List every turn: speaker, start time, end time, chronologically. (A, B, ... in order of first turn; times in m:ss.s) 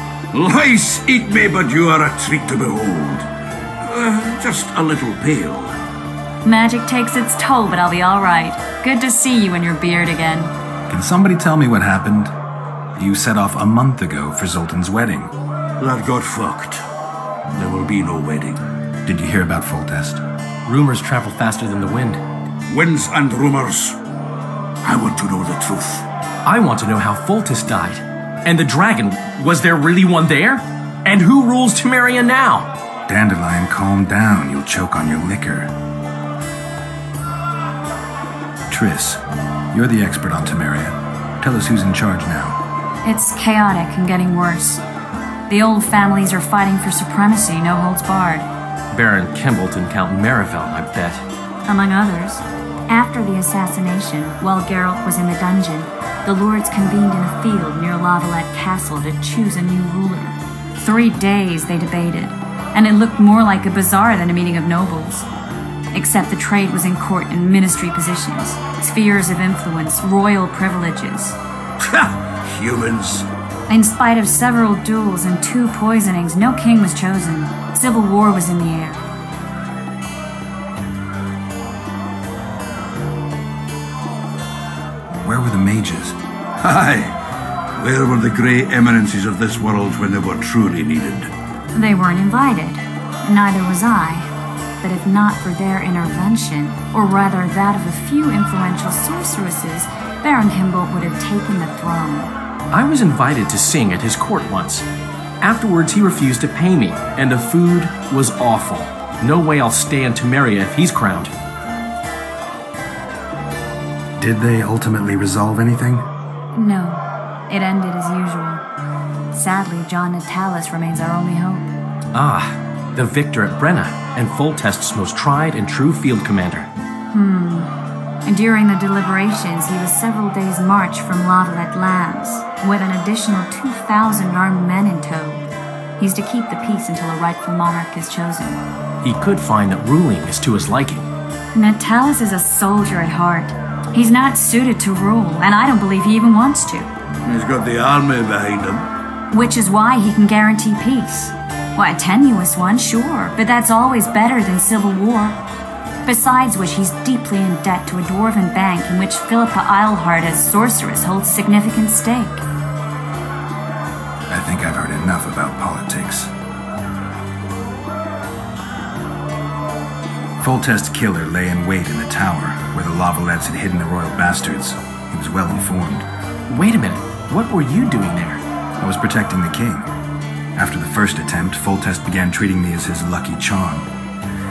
0:00.3-0:03.2 A
0:03.8-0:05.8 A
0:06.4-0:10.5 B
0:10.9-0:12.3 C
0:13.0-0:15.3 C
0:15.8-0:16.8 A
0:17.5-0:18.6 A
0:19.0-0:20.2 C
0:20.7-0:22.2 D
0:22.7-0:24.0 A
0:24.8-0:26.0 A
0:26.4-0:32.7 D
0:33.1-0:35.7 C
0:38.7-0:39.2 C
0:39.7-0:42.6 C
0:43.0-0:44.8 B
0:45.5-0:48.5 B
0:48.9-0:51.2 D
0:51.7-1:05.3 B
1:05.9-1:11.4 B
1:11.8-1:13.3 A
1:13.7-1:19.0 B
1:25.2-1:26.2 C
1:26.6-1:27.1 A
1:27.8-1:31.3 A
1:31.7-1:34.3 B
1:34.8-1:42.3 B
1:42.7-1:44.8 D
1:45.4-1:51.3 D
1:54.2-1:56.1 C
1:56.5-1:58.6 B
1:59.3-2:01.7 B
2:02.1-2:06.7 D
2:07.1-2:07.7 B
2:08.3-2:15.4 B
2:16.0-2:18.6 B
2:19.0-2:21.1 D
2:21.5-2:26.9 B
2:27.3-2:28.7 A
2:29.3-2:35.4 B
2:36.0-2:42.4 B
2:44.3-2:46.3 C
2:50.4-2:56.1 C
2:56.5-2:58.4 D
2:58.8-2:59.9 C
3:00.6-3:03.9 C